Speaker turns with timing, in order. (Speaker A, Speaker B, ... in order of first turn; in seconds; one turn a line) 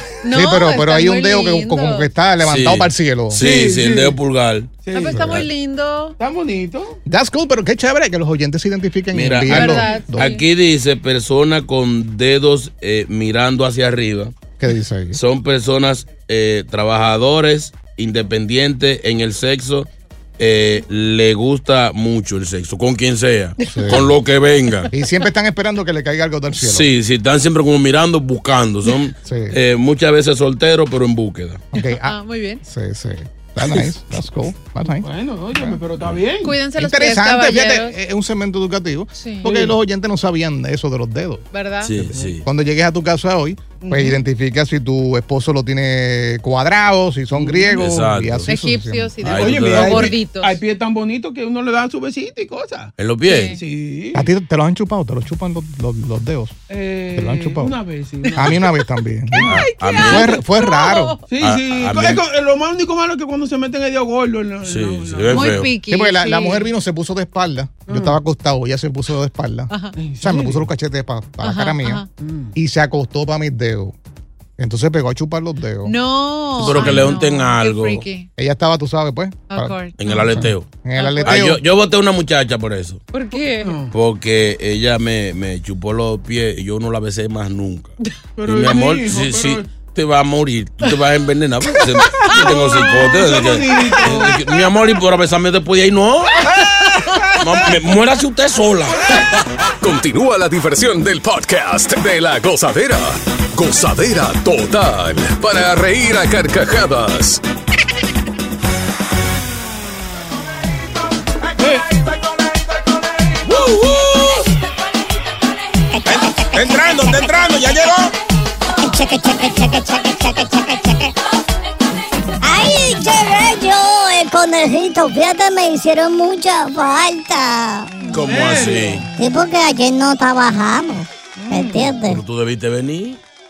Speaker A: 0.2-2.1
Speaker B: 0.3-3.4
Speaker C: 2.4-5.5
Speaker D: 3.3-4.2
Speaker D: 4.8-5.4
Speaker A: 4.9-6.2
Speaker B: 5.2-5.4
Speaker D: 6.2-7.0
Speaker B: 7.1-10.4
Speaker C: 9.1-14.3
Speaker A: 9.5-10.4
Speaker B: 14.6-15.2
Speaker C: 15.1-24.9
Speaker A: 23.6-23.9
Speaker B: 23.7-24.2
Speaker B: 24.9-26.9
Speaker C: 26.6-31.7
Speaker B: 29.2-29.6
Speaker B: 31.7-35.8
Speaker A: 31.8-32.6
Speaker D: 35.0-36.6
Speaker A: 36.4-38.0
Speaker B: 36.8-41.5
Speaker A: 39.1-39.6
Speaker D: 39.4-39.7
Speaker A: 41.5-41.9
Speaker C: 41.8-42.5
Speaker D: 42.1-42.4
Speaker B: 42.4-49.4
Speaker D: 43.8-44.2
Speaker D: 47.3-47.7
Speaker C: 47.7-48.5
Speaker A: 48.5-50.6
Speaker C: 49.2-50.2
Speaker D: 49.3-52.9
Speaker C: 53.0-53.6
Speaker A: 53.2-53.6
Speaker D: 53.5-54.3
Speaker B: 54.1-56.6
Speaker D: 56.7-58.7
Speaker B: 57.1-57.8
Speaker A: 58.3-58.5
Speaker B: 58.4-61.2
Speaker A: 59.4-61.2
Speaker C: 59.4-60.4
Speaker D: 61.3-65.7
Speaker C: 61.4-62.2
Speaker C: 64.7-65.7
Speaker A: 65.3-66.7
Speaker B: 65.8-72.0
Speaker D: 67.9-68.2
Speaker A: 69.7-70.0
Speaker D: 70.0-70.7
Speaker A: 71.4-72.1
Speaker D: 72.2-72.5
Speaker B: 72.5-74.0
Speaker B: 74.6-76.0
Speaker A: 75.8-78.3
Speaker C: 76.6-78.1
Speaker B: 76.6-77.0
Speaker B: 78.4-79.8
Speaker A: 79.5-81.5
Speaker C: 80.0-80.7
Speaker B: 80.4-81.6
Speaker C: 81.2-83.0
Speaker A: 83.1-83.8
Speaker D: 83.5-83.9
Speaker C: 83.9-96.5
Speaker D: 88.4-89.7
Speaker A: 92.1-93.2
Speaker D: 92.3-94.4
Speaker A: 93.9-94.3
Speaker A: 96.5-97.4
Speaker C: 97.4-99.2
Speaker E: 99.8-107.4
Speaker F: 115.9-117.5
Speaker C: 116.5-118.1
Speaker F: 118.8-121.1
Speaker F: 122.4-127.9
Speaker A: 128.0-128.3
Speaker D: 128.1-129.1
Speaker C: 128.1-129.1
Speaker F: 129.2-132.2
Speaker D: 131.4-131.9
Speaker C: 132.0-133.2